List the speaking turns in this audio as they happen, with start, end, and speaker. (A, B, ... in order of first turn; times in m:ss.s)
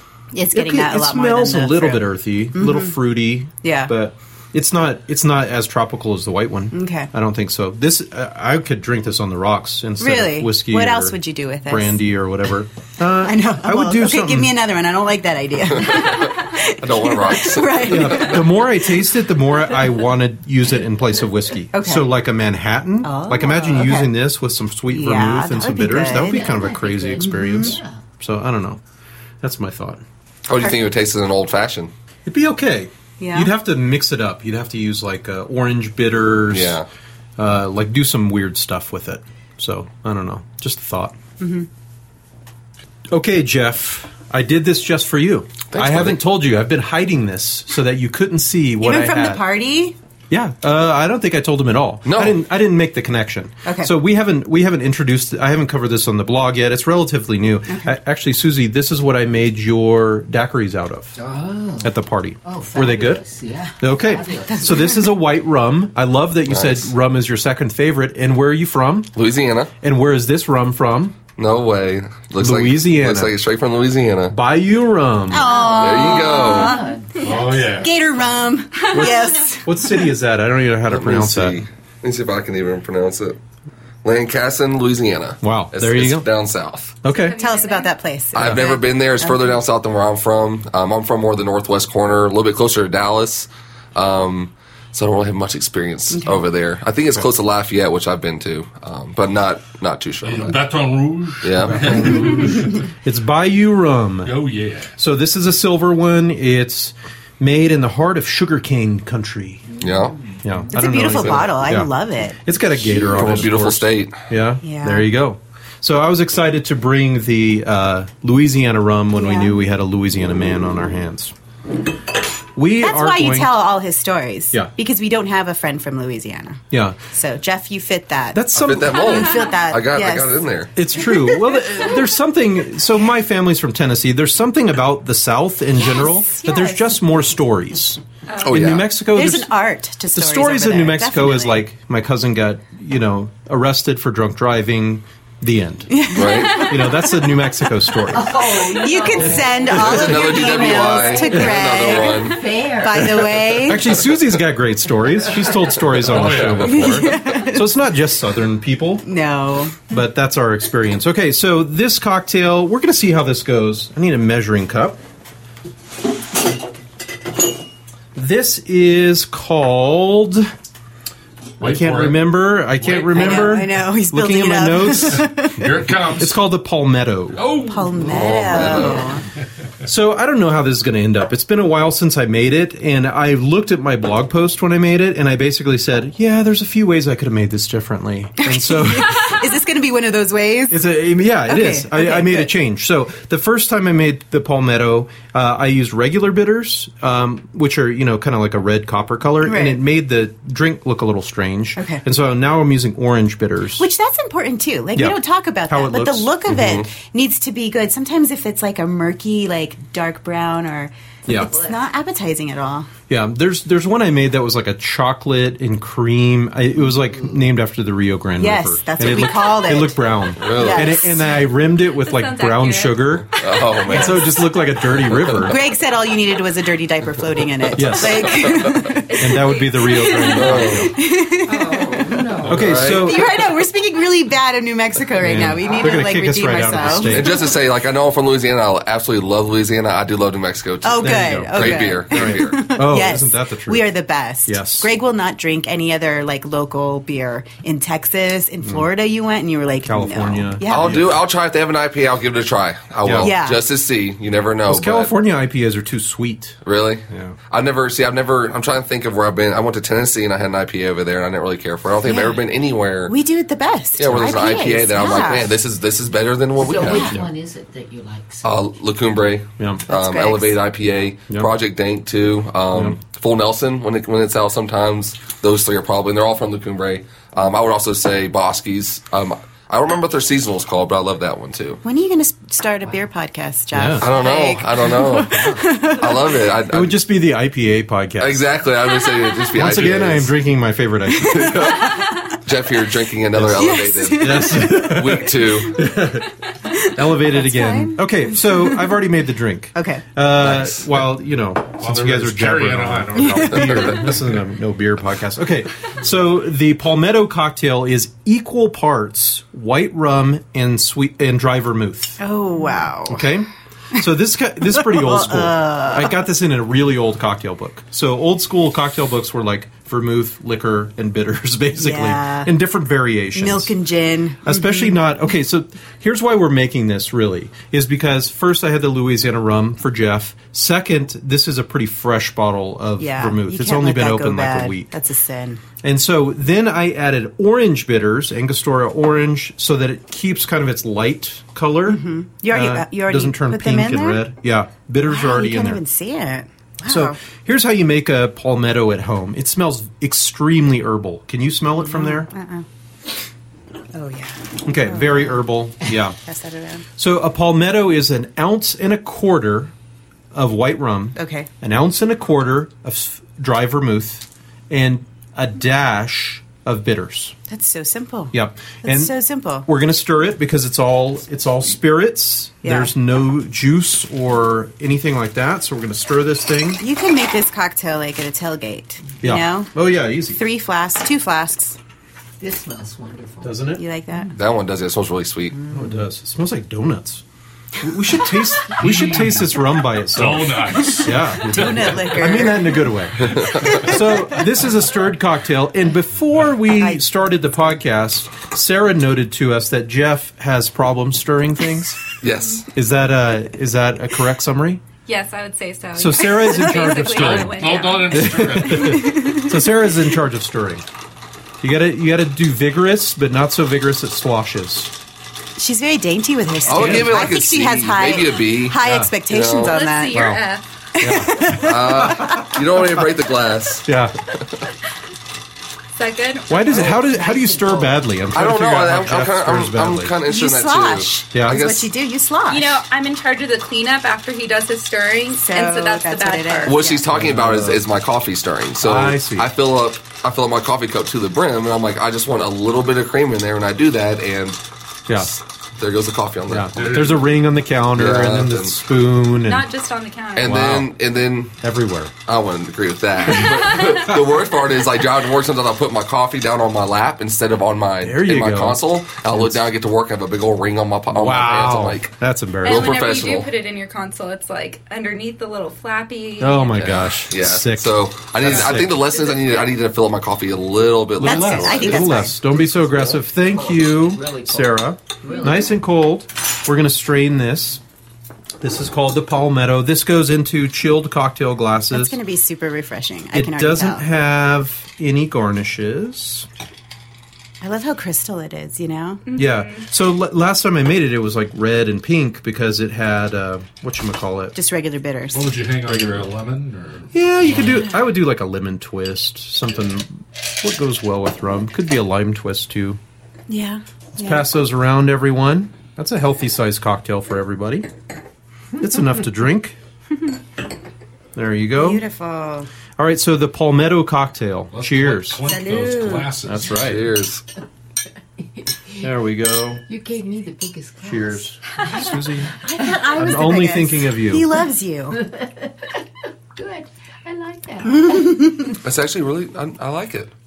0:00.3-0:03.0 A
0:00.5-0:14.5 B
0:03.6-0:03.9 A
0:06.7-0:07.1 A
0:10.0-0:12.0 A
0:13.0-0:18.7 A
0:16.8-0:18.4 C
0:17.9-0:28.8 B
0:21.7-0:22.1 A
0:23.0-0:24.1 A
0:24.9-0:26.5 A
0:26.1-0:28.0 D
0:27.2-0:27.8 A
0:29.4-0:30.0 B
0:30.5-0:31.9 C
0:32.3-0:36.8 B
0:33.2-0:33.5 A
0:36.5-0:36.9 C
0:37.4-0:41.2 B
0:41.4-0:41.7 A
0:43.1-0:49.4 B
0:45.7-0:46.2 C
0:48.8-0:50.0 A
0:50.3-1:01.2 B
0:52.0-0:52.4 C
0:53.6-0:53.9 A
0:57.7-0:58.0 A
1:01.2-1:05.0 D
1:01.8-1:03.2 B
1:03.8-1:09.1 B
1:06.5-1:06.9 C
1:09.1-1:09.7 C
1:09.8-1:11.2 B
1:11.4-1:14.4 C
1:12.4-1:13.4 B
1:14.3-1:15.5 B
1:15.3-1:19.9 A
1:15.4-1:17.9 D
1:15.6-1:16.8 C
1:17.2-1:17.9 E
1:18.9-1:21.6 B
1:20.8-1:23.4 C
1:24.0-1:26.9 C
1:25.4-1:26.3 B
1:27.0-1:27.4 B
1:27.1-1:28.0 F
1:27.4-1:29.5 A
1:28.4-1:40.6 C
1:36.2-1:36.4 A
1:40.2-1:42.8 E
1:41.4-1:41.9 C
1:41.9-1:44.4 B
1:44.2-1:44.9 E
1:45.0-1:49.7 B
1:49.8-1:50.4 D
1:49.8-1:50.2 C
1:50.4-1:51.9 B
1:50.7-1:52.4 A
1:52.4-2:01.3 B
1:52.8-1:54.2 C
1:54.6-1:55.1 A
1:59.1-1:59.6 A
2:02.6-2:03.6 B
2:02.8-2:11.6 A
2:06.7-2:07.0 B
2:08.3-2:09.2 B
2:08.6-2:10.7 C
2:10.8-2:19.5 B
2:16.4-2:16.8 A
2:18.3-2:18.7 F
2:18.4-2:18.9 C
2:19.0-2:21.7 A
2:20.2-2:26.0 B
2:25.9-2:27.3 A
2:26.2-2:26.7 C
2:26.5-2:28.4 B
2:28.1-2:33.5 D
2:28.7-2:34.0 A
2:29.2-2:30.4 B
2:29.7-2:32.5 C
2:33.2-2:39.0 B
2:36.0-2:36.9 E
2:36.4-2:37.7 A
2:39.0-2:39.8 A
2:39.9-2:45.0 B
2:48.2-2:50.5 B
2:51.6-2:53.6 E
2:51.6-2:55.3 B
2:53.1-2:55.7 A
2:55.0-2:56.4 E
2:56.1-2:57.5 B
2:57.3-2:59.1 E
2:57.7-2:59.2 A
2:58.0-2:59.1 C
2:59.8-3:09.4 B
3:08.4-3:10.8 A
3:10.7-3:23.9 B
3:11.5-3:12.5 A
3:19.4-3:19.8 A
3:21.8-3:22.0 A
3:23.8-3:32.9 A
3:25.0-3:26.3 B
3:26.5-3:26.9 C
3:31.3-3:31.5 B
3:31.5-3:31.8 D
3:33.1-3:43.3 B
3:38.4-3:41.4 A
3:40.4-3:40.8 C
3:41.6-3:43.2 F
3:43.4-3:44.3 C
3:43.9-3:45.6 B
3:43.9-3:44.4 A
3:45.4-3:57.4 A
3:47.8-3:48.4 B
3:48.9-3:50.4 F
3:49.2-3:51.0 B
3:50.4-3:50.9 C
3:51.4-3:52.7 D
3:52.0-3:53.2 C
3:52.4-3:52.8 E
3:52.4-3:53.3 B
3:55.2-3:57.4 B
3:57.0-4:02.6 C
4:00.8-4:11.0 A
4:01.0-4:03.9 B
4:04.5-4:04.9 B
4:09.8-4:11.2 B
4:10.7-4:15.2 C
4:13.0-4:13.4 B
4:13.2-4:13.6 A
4:14.7-4:16.6 B
4:16.6-4:23.2 C
4:17.1-4:17.4 B
4:22.0-4:22.5 A
4:23.1-4:25.6 A
4:24.0-4:27.2 C
4:26.5-4:28.7 D
4:26.8-4:27.2 A
4:28.4-4:41.8 C
4:29.6-4:29.8 B
4:29.9-4:30.6 A
4:32.7-4:33.0 B
4:41.8-4:46.5 A
4:43.7-4:44.1 B
4:44.0-4:47.0 C
4:45.2-4:45.9 D
4:46.7-4:48.4 B
4:48.2-4:50.4 C
4:49.5-4:51.9 B
4:51.2-4:55.9 C
4:51.3-4:51.8 A
4:53.4-4:56.3 B
4:53.6-4:55.3 A
4:56.7-4:58.9 A
4:56.8-5:12.2 B
4:59.8-5:00.0 A
5:00.4-5:00.9 C
5:01.8-5:04.4 E
5:12.2-5:13.3 A
5:13.1-5:23.7 B
5:14.7-5:16.2 A
5:21.8-5:22.5 A
5:23.3-5:25.0 A
5:24.4-5:34.9 B
5:33.0-5:35.6 A
5:35.8-5:45.8 B
5:41.9-5:44.3 A
5:45.0-5:47.2 A
5:46.9-5:52.3 B
5:51.8-5:52.6 A
5:53.9-5:55.5 A
5:54.6-5:56.2 B
5:56.2-5:56.8 A
5:57.0-5:59.7 B
6:00.3-6:07.4 B
6:01.2-6:01.5 A
6:07.5-6:09.7 A
6:08.3-6:16.8 B
6:12.6-6:12.9 A
6:16.8-6:19.7 A
6:19.2-6:20.4 B
6:20.3-6:21.8 A
6:22.4-6:23.6 D
6:23.4-6:23.8 B
6:23.8-6:24.3 A
6:24.3-6:25.7 C
6:25.7-6:27.2 B
6:27.8-6:42.0 B
6:28.8-6:29.6 E
6:30.1-6:32.4 E
6:30.8-6:32.9 A
6:33.3-6:33.7 C
6:33.6-6:34.5 A
6:42.2-6:42.7 C
6:42.7-6:44.8 B
6:45.1-6:48.6 F
6:46.0-6:50.8 B
6:47.1-6:49.4 E
6:48.9-6:49.5 A
6:51.6-6:54.9 B
6:55.6-7:00.3 A
6:56.7-6:59.8 C
6:56.8-6:57.4 E
6:58.8-6:59.1 B
6:59.6-7:00.7 F
7:00.1-7:00.4 B
7:01.0-7:02.5 A
7:01.0-7:02.3 B
7:01.6-7:03.9 C
7:03.9-7:04.1 B
7:06.0-7:07.0 F
7:06.5-7:10.2 B
7:06.6-7:08.1 D
7:08.3-7:11.9 C
7:10.2-7:12.8 A
7:11.3-7:11.7 B
7:12.5-7:17.0 F
7:15.4-7:16.9 A
7:16.6-7:27.1 C
7:17.1-7:17.8 B
7:18.8-7:19.5 B
7:26.5-7:29.7 B
7:26.7-7:27.3 E
7:27.9-7:28.8 C
7:29.4-7:30.5 F
7:30.4-7:31.6 C
7:30.4-7:30.9 B
7:31.6-7:32.1 B
7:32.3-7:42.1 C
7:33.6-7:34.0 F
7:38.0-7:39.7 B
7:41.1-7:42.9 B
7:42.6-7:47.0 F
7:42.6-7:43.5 C
7:46.4-7:49.0 B
7:46.7-7:52.0 C
7:51.2-7:57.8 B
7:51.2-7:52.4 A
7:51.6-7:55.7 D
7:58.6-8:02.2 B
8:01.9-8:04.1 A
8:03.3-8:06.5 B
8:07.6-8:09.2 A
8:09.3-8:09.8 F
8:09.4-8:14.6 B
8:14.6-8:15.6 A
8:15.3-8:17.1 E
8:17.1-8:23.0 B
8:23.5-8:24.5 A
8:24.2-8:27.9 B
8:28.8-8:29.8 B
8:31.4-8:32.0 B
8:31.8-8:32.7 A
8:33.0-8:35.5 B
8:34.7-8:36.8 E
8:35.4-8:36.3 A
8:36.4-8:37.1 B
8:36.8-8:37.4 C
8:39.0-8:39.8 B
8:39.9-8:41.5 D
8:41.0-8:42.6 B
8:42.4-8:45.3 A
8:43.2-8:44.5 B
8:45.2-8:46.0 D
8:46.6-8:48.7 D
8:47.9-8:48.8 A
8:48.8-8:50.3 C